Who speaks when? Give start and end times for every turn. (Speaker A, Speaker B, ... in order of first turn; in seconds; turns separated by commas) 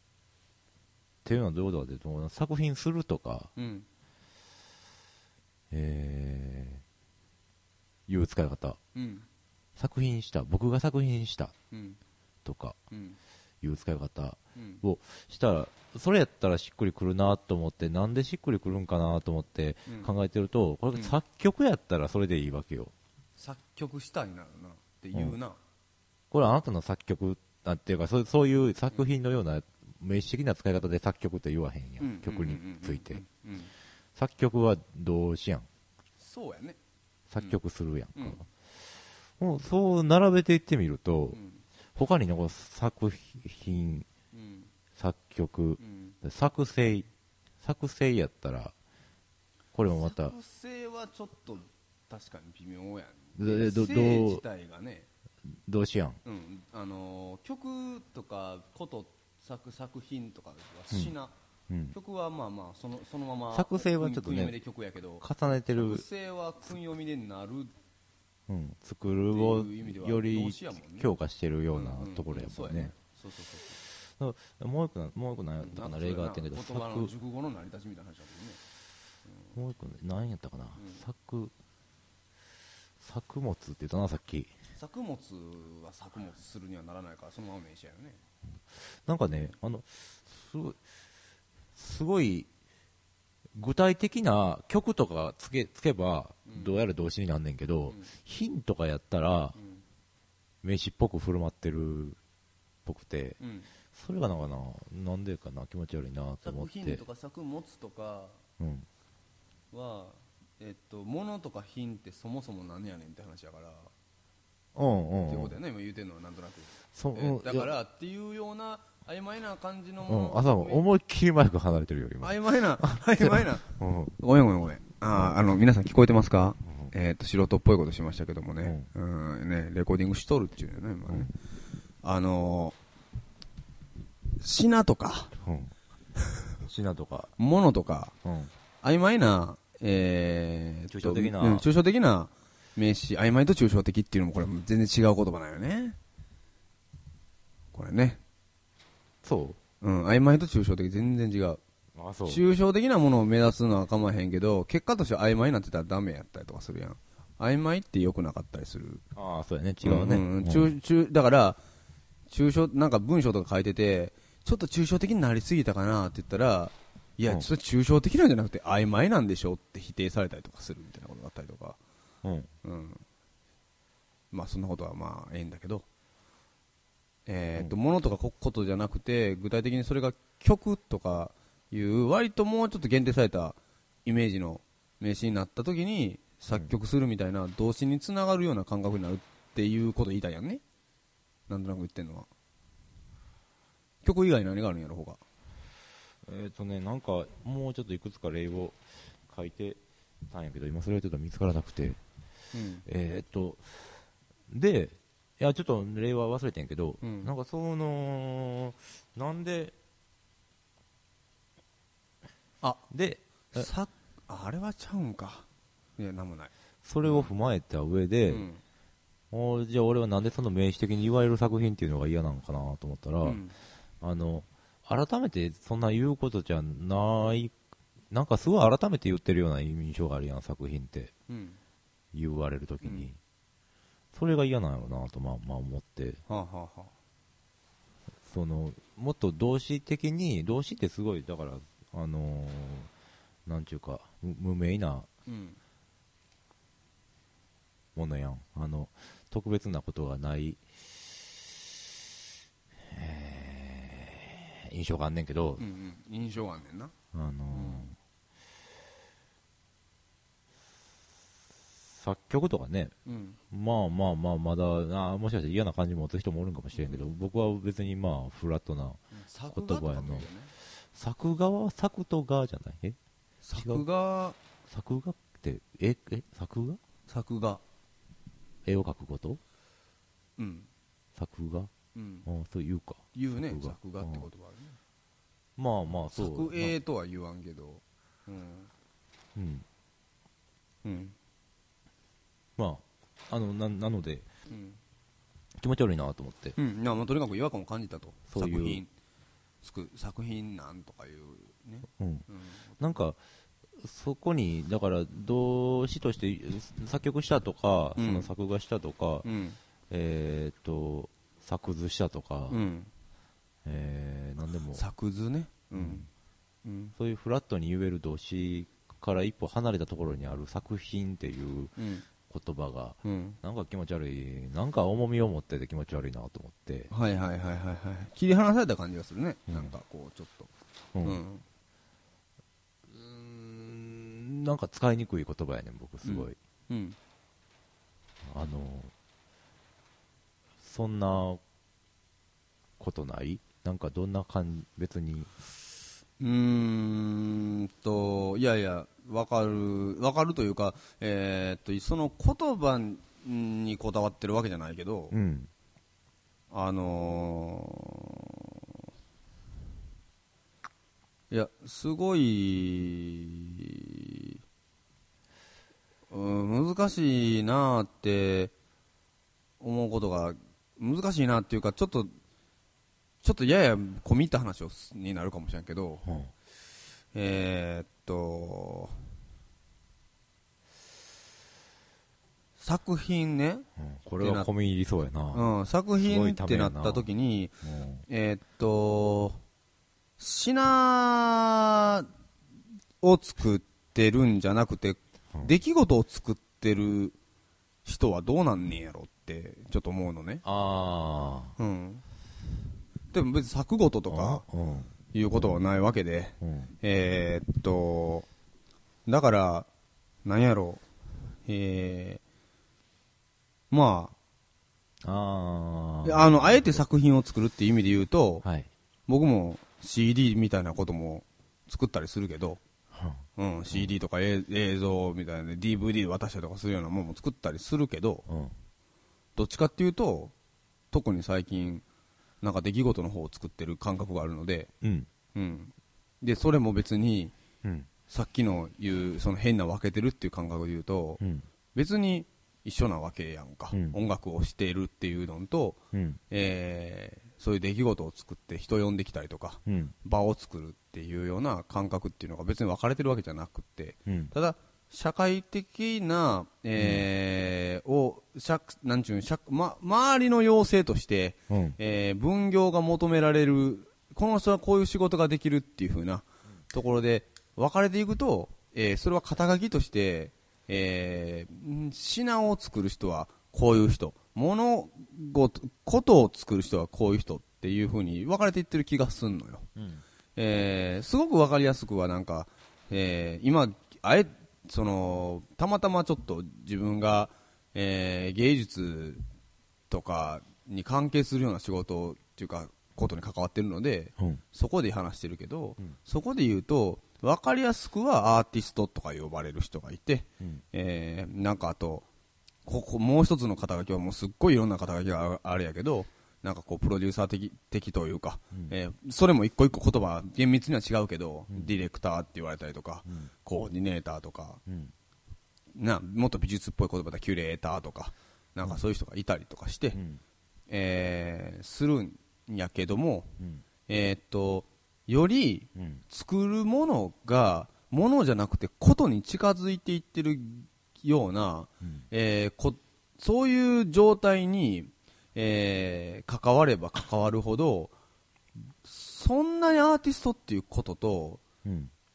Speaker A: 1.2-3.5, Speaker B: 3.5-3.9, Speaker A: 5.7-6.8, Speaker A: 8.1-8.8, Speaker B: 8.9-9.2, Speaker A: 9.8-11.5, Speaker B: 11.7-12.0, Speaker A: 12.4-12.8, Speaker B: 12.9-13.2, Speaker A: 13.6-22.9, Speaker B: 14.6-14.8, Speaker B: 19.9-20.1, Speaker B: 23.4-25.6, Speaker A: 26.3-33.2, Speaker B: 32.0-33.7, Speaker A: 34.1-35.7, Speaker B: 36.2-36.8, Speaker A: 37.3-38.4, Speaker B: 38.1-38.4, Speaker A: 39.4-41.4, Speaker B: 41.3-41.6, Speaker A: 42.0-44.1, Speaker B: 44.3-44.7, Speaker A: 45.0-47.1, Speaker B: 45.8-46.1, Speaker A: 47.6-48.7, Speaker A: 49.7-50.3, Speaker B: 49.9-55.1, Speaker A: 53.4-54.4, Speaker A: 55.6-56.2, Speaker B: 56.2-61.3, Speaker A: 61.7-62.0, Speaker B: 61.9-67.7, Speaker A: 63.5-64.6, Speaker A: 65.2-66.0, Speaker A: 68.5-72.9, Speaker B: 69.3-71.1, Speaker B: 71.7-73.8, Speaker A: 74.0-77.1, Speaker B: 75.6-78.6, Speaker B: 79.3-79.5, Speaker A: 79.5-81.5, Speaker A: 83.0-84.5, Speaker B: 84.8-88.2, Speaker A: 89.0-90.8, Speaker A: 91.8-92.5, Speaker A: 93.5-99.5, Speaker B: 96.5-96.7, Speaker B: 99.6-99.8, Speaker A: 100.6-102.2, Speaker A: 102.8-103.4, Speaker B: 103.4-103.7, Speaker A: 103.9-107.0, Speaker B: 106.4-108.4, Speaker A: 108.6-108.9, Speaker B: 109.7-113.9, Speaker A: 114.7-115.5, Speaker B: 115.2-120.8, Speaker A: 116.9-117.7, Speaker A: 120.1-124.1, Speaker B: 122.2-123.7, Speaker B: 124.2-131.3, Speaker A: 126.6-126.9, Speaker A: 128.6-128.9, Speaker B: 132.0-132.8, Speaker B: 134.4-135.3, Speaker A: 135.3-135.7, Speaker A: 136.7-137.3, Speaker B: 137.4-138.1, Speaker A: 138.2-138.5, Speaker B: 138.8-146.0, Speaker A: 140.9-141.7, Speaker B: 147.7-148.2, Speaker A: 149.2-149.6, Speaker B: 149.8-151.6, Speaker A: 151.9-152.4, Speaker B: 152.2-159.0, Speaker A: 159.1-160.7, Speaker B: 159.8-161.6, Speaker B: 162.3-171.8, Speaker A: 172.2-172.5, Speaker B: 172.6-173.0, Speaker B: 174.3-175.8, Speaker B: 177.2-190.6, Speaker B: 191.5-192.3, Speaker B: 194.0-195.2, Speaker A: 196.2-202.0, Speaker B: 202.5-202.8, Speaker A: 202.8-203.9, Speaker A: 204.5-209.7, Speaker B: 207.0-207.3, Speaker A: 212.9-213.7, Speaker B: 213.5-215.4, Speaker B: 216.0-216.5, Speaker A: 216.8-218.5, Speaker B: 217.0-217.3, Speaker B: 218.3-218.6, Speaker A: 219.3-223.4, Speaker B: 223.2-223.5, Speaker A: 224.0-227.5, Speaker A: 228.1-231.1, Speaker B: 231.3-231.6, Speaker A: 232.1-233.2, Speaker A: 234.1-236.2, Speaker B: 236.3-236.9, Speaker A: 238.2-242.9, Speaker A: 243.4-245.1, Speaker B: 245.3-245.6, Speaker A: 247.9-250.6, Speaker A: 252.8-255.6, Speaker B: 255.6-256.9, Speaker A: 257.1-257.9, Speaker B: 257.5-257.9, Speaker A: 261.9-262.9, Speaker B: 263.1-263.4, Speaker A: 263.5-270.3, Speaker B: 266.7-267.0, Speaker B: 269.1-270.5, Speaker A: 270.8-273.0, Speaker B: 273.4-274.4, Speaker A: 273.6-273.8, Speaker A: 274.7-276.8, Speaker B: 277.1-277.6, Speaker A: 278.6-279.4, Speaker B: 280.4-280.7, Speaker A: 281.1-281.7, Speaker B: 281.9-282.3, Speaker A: 282.2-284.3, Speaker B: 283.1-284.8, Speaker A: 285.6-286.7, Speaker B: 286.1-288.7, Speaker A: 289.3-289.6, Speaker B: 290.8-291.1, Speaker A: 292.6-294.3, Speaker B: 294.5-294.8, Speaker A: 295.6-296.6, Speaker B: 296.6-298.9, Speaker A: 298.3-298.8, Speaker B: 299.6-302.8, Speaker A: 302.0-302.3, Speaker A: 302.8-303.2, Speaker A: 303.8-309.2, Speaker B: 308.0-308.3, Speaker B: 309.2-309.6, Speaker A: 309.9-312.6, Speaker B: 312.5-312.9, Speaker A: 313.6-314.8, Speaker B: 314.7-316.1, Speaker A: 315.7-316.1, Speaker B: 316.6-316.9, Speaker A: 317.0-321.7, Speaker B: 321.8-322.0, Speaker A: 322.3-326.9, Speaker B: 323.0-323.4, Speaker B: 326.9-330.5, Speaker A: 330.9-331.2, Speaker B: 331.0-331.4, Speaker A: 332.9-336.4, Speaker B: 336.0-337.0, Speaker A: 338.2-338.9, Speaker A: 340.6-341.4, Speaker A: 342.8-345.3, Speaker B: 346.2-355.1, Speaker A: 355.1-355.5, Speaker B: 356.5-358.3, Speaker B: 361.3-364.3, Speaker B: 366.1-368.5, Speaker B: 369.6-372.1, Speaker B: 373.2-376.0, Speaker A: 376.0-376.3, Speaker B: 377.1-379.0, Speaker B: 382.6-383.6, Speaker A: 383.8-387.1, Speaker B: 384.2-384.5, Speaker B: 385.3-387.6, Speaker A: 387.6-388.0, Speaker B: 388.1-389.4, Speaker B: 390.2-392.1, Speaker B: 393.0-397.1, Speaker B: 397.8-400.4, Speaker A: 400.4-401.5, Speaker B: 401.6-402.0, Speaker B: 403.1-404.4, Speaker A: 404.1-405.6, Speaker B: 405.1-408.3, Speaker A: 406.4-406.7, Speaker B: 409.1-409.7, Speaker B: 410.2-410.8, Speaker B: 411.5-412.2, Speaker B: 413.7-414.1, Speaker A: 415.0-416.8, Speaker B: 416.0-418.4, Speaker A: 418.4-418.7, Speaker B: 419.1-422.6, Speaker A: 422.9-423.9, Speaker B: 423.4-428.2, Speaker A: 428.3-428.5, Speaker B: 429.4-430.3, Speaker B: 430.9-431.8, Speaker B: 432.4-434.7, Speaker A: 434.8-435.1, Speaker B: 435.3-437.3, Speaker B: 438.1-441.2, Speaker A: 441.2-441.4, Speaker B: 441.7-479.7, Speaker A: 443.7-444.0, Speaker A: 445.9-446.2, Speaker A: 449.6-449.9, Speaker A: 454.1-454.3, Speaker A: 456.8-457.0, Speaker A: 461.5-461.8, Speaker A: 479.8-480.0, Speaker B: 480.4-489.2, Speaker B: 489.9-502.1, Speaker B: 502.6-514.6, Speaker A: 514.7-514.9, Speaker B: 515.8-520.0, Speaker A: 519.9-520.2, Speaker B: 520.7-523.3, Speaker B: 523.9-537.9, Speaker A: 525.8-526.0, Speaker B: 538.8-541.4, Speaker A: 541.6-541.9